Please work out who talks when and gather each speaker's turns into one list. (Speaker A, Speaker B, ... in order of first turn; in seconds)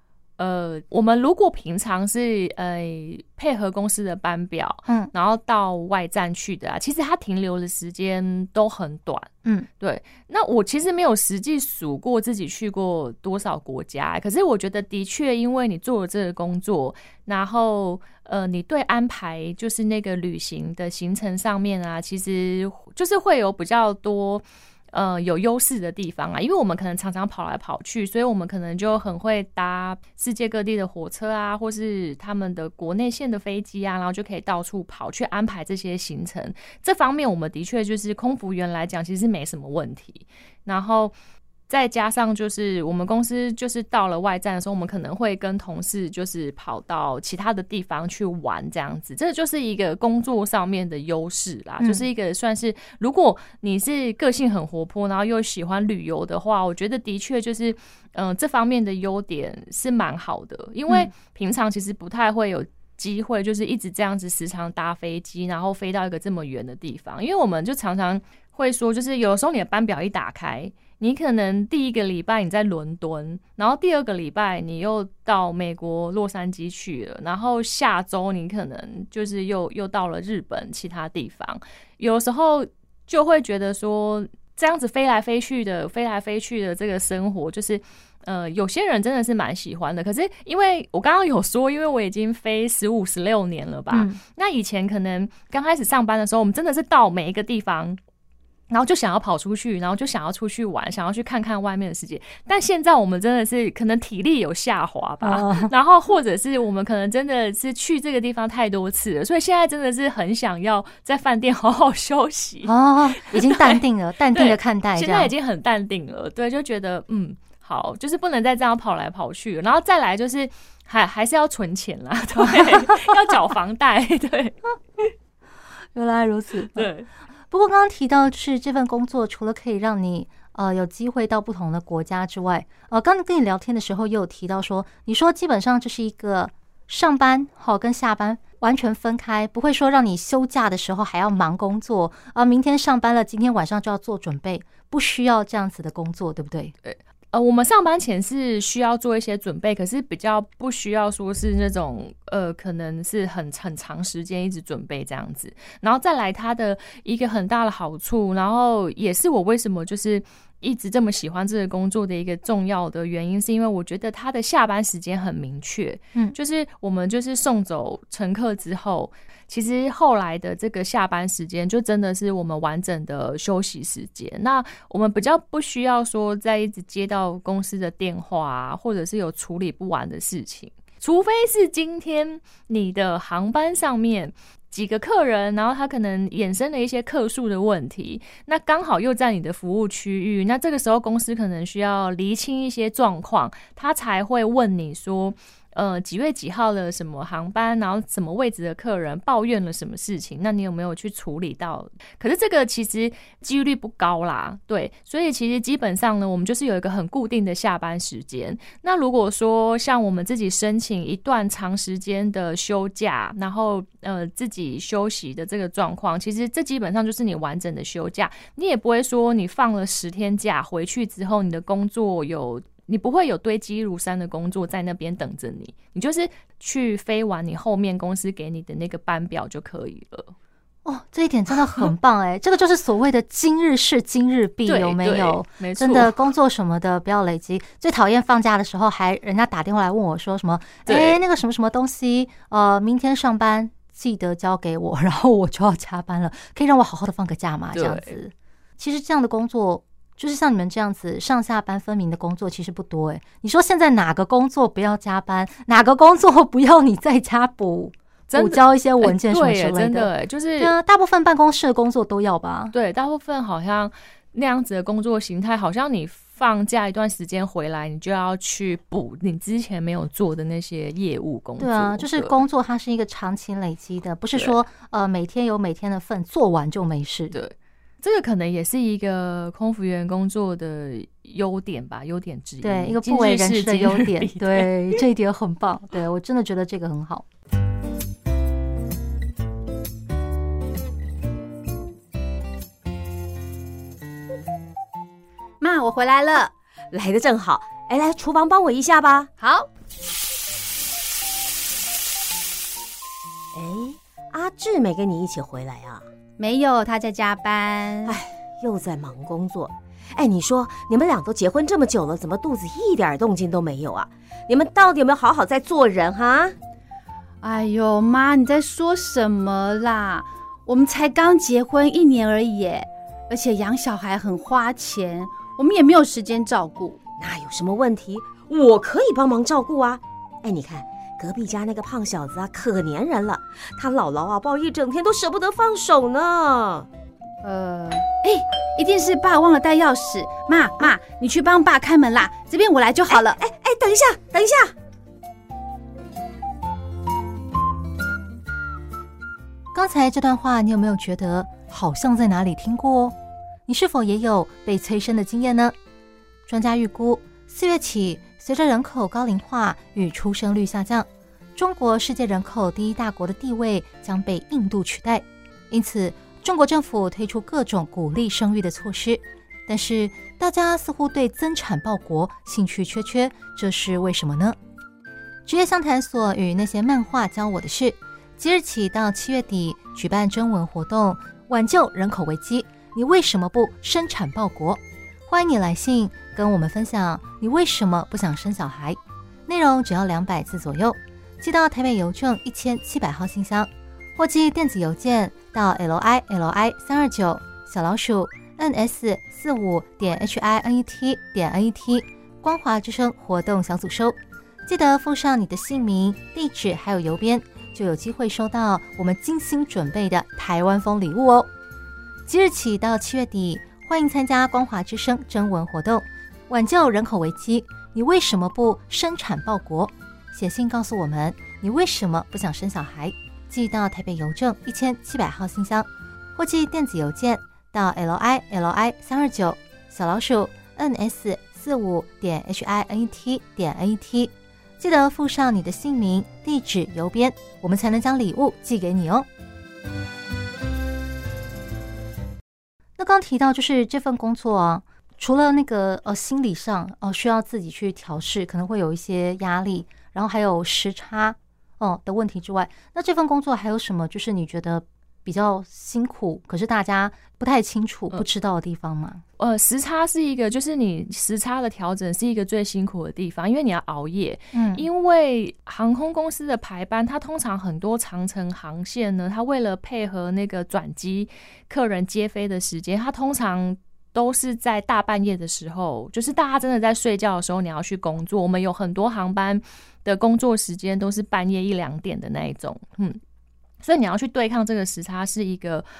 Speaker A: 0.4-41.1, 41.7-98.0, 98.7-113.8, 114.3-124.5, 126.7-127.1, 146.8-230.3, 234.7-236.1, 240.8-241.2, 247.7-248.2, 258.3-260.8, 262.7-272.4, 277.3-285.0, 459.4-483.2, 483.8-485.9
Speaker B: 4.9-5.1, 51.8-52.0, 93.9-94.2, 105.2-105.7, 112.6-115.3, 122.4-123.2, 125.9-126.9, 127.5-146.7, 230.8-262.7, 271.6-277.4, 282.6-287.3, 349.7-355.7, 356.5-374.6, 375.4-411.5, 412.2-439.3, 443.0-459.2, 464.5-464.9
Speaker C: 295.6-296.5, 299.4-299.7, 306.4-308.1, 317.4-327.0, 337.4-343.4
Speaker D: 296.9-299.3, 303.5-306.0, 308.1-316.5, 327.2-336.9, 343.1-344.7